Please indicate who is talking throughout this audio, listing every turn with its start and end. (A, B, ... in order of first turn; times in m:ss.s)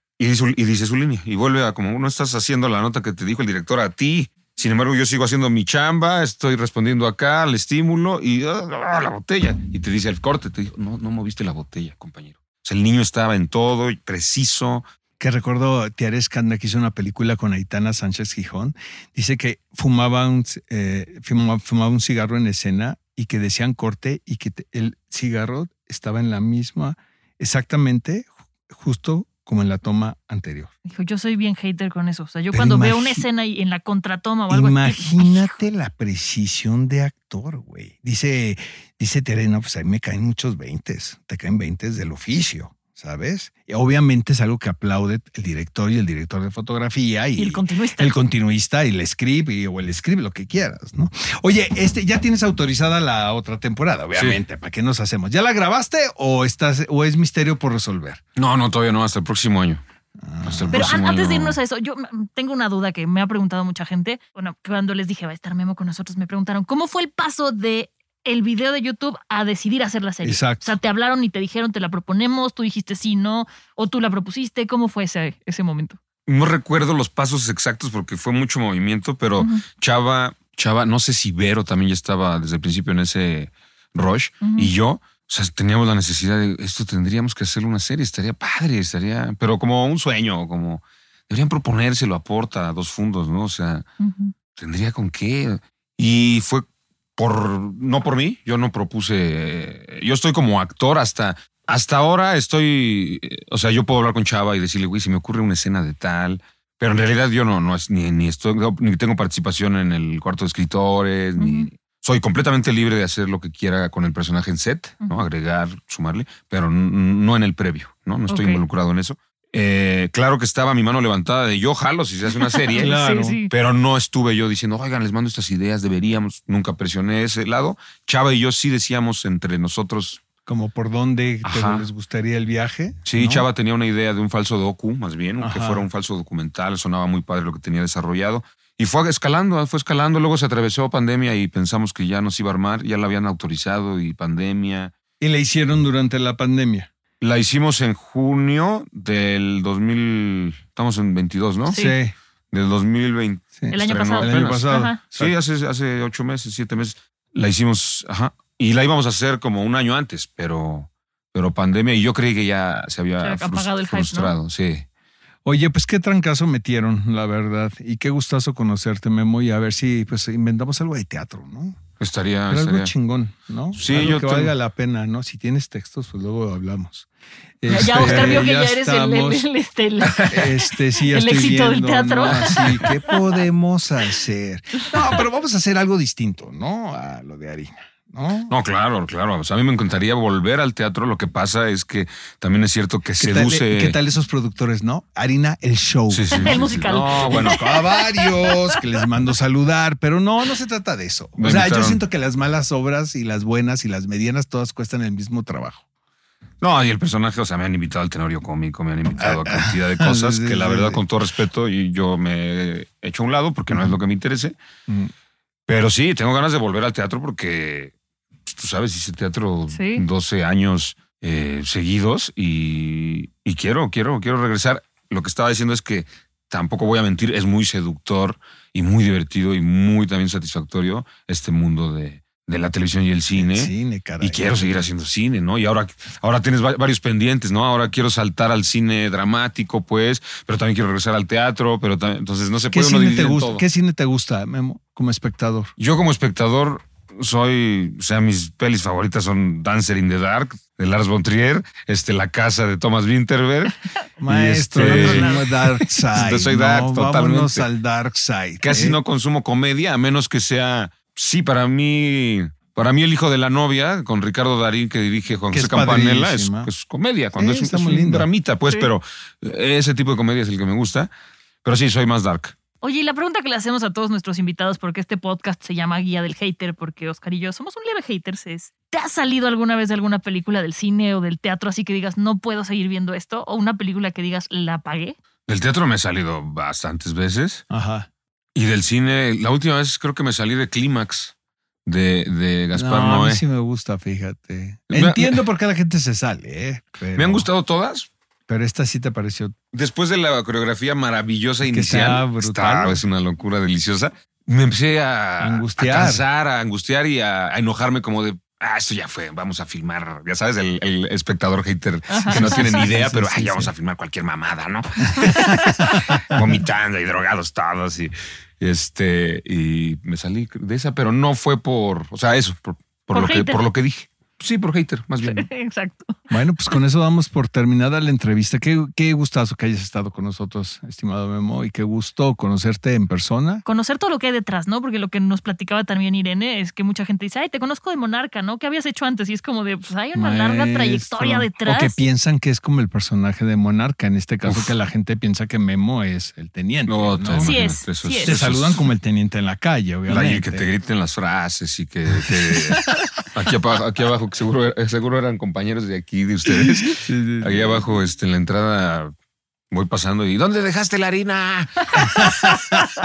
0:00.2-0:14.8 A
0:15.2-0:30.7 B
0:30.8-0:35.6 C
0:32.5-0:33.2 B
0:34.5-0:58.2 B
0:47.4-0:48.1 C
0:54.1-0:54.4 A
0:58.4-0:59.8 A
1:00.2-1:00.9 B
1:00.4-1:01.6 A
1:00.7-1:16.0 C
1:10.2-1:10.8 B
1:16.2-1:33.9 A
1:19.4-1:19.6 C
1:24.4-1:24.7 C
1:34.0-1:34.3 C
1:34.6-1:36.6 A
1:37.2-2:02.9 A
1:51.4-1:51.7 C
1:58.3-1:58.6 C
2:02.4-2:03.5 C
2:02.7-2:03.4 B
2:03.5-2:10.2 A
2:10.4-2:13.4 B
2:11.4-2:11.9 A
2:13.0-2:24.9 A
2:15.4-2:15.9 B
2:25.2-2:26.9 B
2:27.2-2:31.8 A
2:31.7-2:32.0 C
2:31.7-2:32.1 B
2:32.5-2:44.8 A
2:33.6-2:35.3 B
2:33.7-2:35.0 C
2:43.2-2:44.4 C
2:45.4-2:51.8 B
2:52.0-2:52.9 A
2:52.5-2:57.1 B
2:53.7-2:54.5 A
2:57.6-2:59.5 B
2:57.7-3:03.1 C
2:57.8-2:58.4 A
3:00.2-3:08.5 B
3:08.5-3:14.0 A
3:13.2-3:25.8 B
3:16.1-3:17.6 A
3:16.3-3:18.8 C
3:21.4-3:22.0 A
3:26.6-3:34.6 A
3:29.2-3:31.0 B
3:33.7-3:34.0 B
3:34.9-3:35.1 B
3:35.7-3:37.9 A
3:38.4-4:03.6 A
3:39.7-3:40.0 C
3:53.3-3:54.9 B
4:02.7-4:05.7 B
4:05.8-4:15.5 A
4:14.2-4:19.0 B
4:14.8-4:15.4 C
4:16.1-4:17.7 A
4:18.6-4:31.1 A
4:25.5-4:26.7 B
4:27.4-4:28.3 B
4:31.6-4:32.6 A
4:32.8-4:45.2 C
4:45.5-4:47.6 A
4:47.7-4:48.1 B
4:48.5-4:51.3 A
4:51.8-4:53.4 A
4:52.7-4:57.5 B
4:54.9-4:55.4 A
4:57.1-4:58.1 A
4:58.5-4:59.6 B
4:59.7-5:25.5 A
5:01.6-5:03.0 B
5:05.4-5:06.2 B
5:12.1-5:12.6 C
5:12.3-5:13.7 B
5:15.1-5:16.4 B
5:23.1-5:23.6 C
5:25.2-5:26.2 C
5:26.3-5:33.6 B
5:33.6-5:42.0 C
5:40.1-5:50.7 B
5:44.4-5:44.7 A
5:46.8-5:48.8 A
5:47.4-5:48.4 C
5:50.1-5:59.1 A
5:52.1-5:53.0 B
5:56.4-5:57.8 B
5:59.7-6:02.7 A
6:02.0-6:02.3 B